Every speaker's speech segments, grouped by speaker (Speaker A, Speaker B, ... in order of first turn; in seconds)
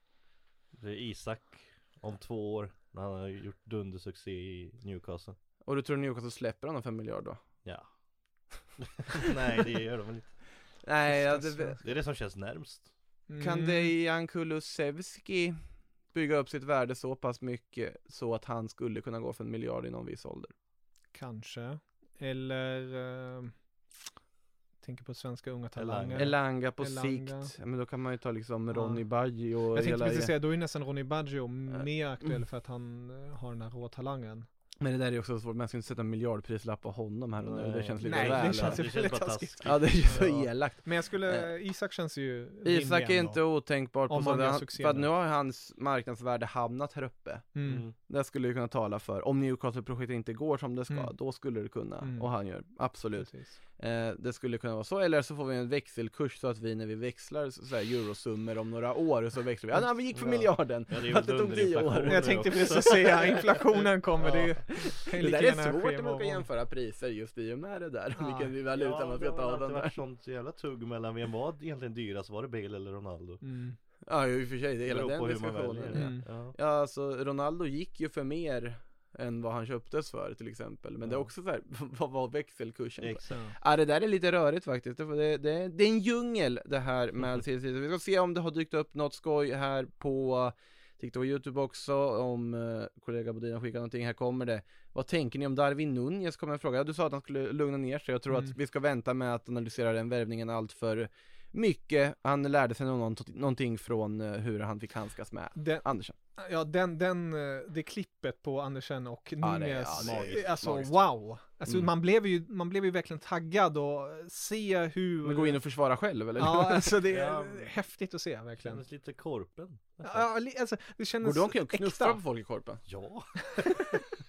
Speaker A: 0.7-5.4, 8.8-10.4, 11.8-12.9, 25.8-26.3, 37.4-40.4, 47.6-48.0, 60.1-64.5, 68.7-73.4, 74.9-76.5, 81.0-81.3, 83.0-83.3, 110.0-110.9, 117.1-117.7, 118.6-120.3, 122.9-124.0
Speaker B: 5.6-7.4, 10.8-11.8, 13.4-15.6, 16.1-20.5, 26.1-30.3, 31.7-32.4, 34.8-39.0, 39.6-41.5, 42.6-63.4, 64.8-70.0, 74.1-106.2, 109.4-110.9, 115.2-117.0, 121.2-122.8
Speaker C: 11.2-11.8, 13.3-13.9, 21.1-23.6, 24.8-27.5, 28.7-29.0, 29.7-34.5, 38.0-43.4, 44.1-45.1, 47.5-47.8, 52.0-52.3, 53.2-53.6, 62.1-66.5, 68.2-68.5, 73.4-73.8, 75.9-76.2, 83.3-83.6, 105.6-105.8, 106.4-115.6, 116.4-118.8, 120.0-122.2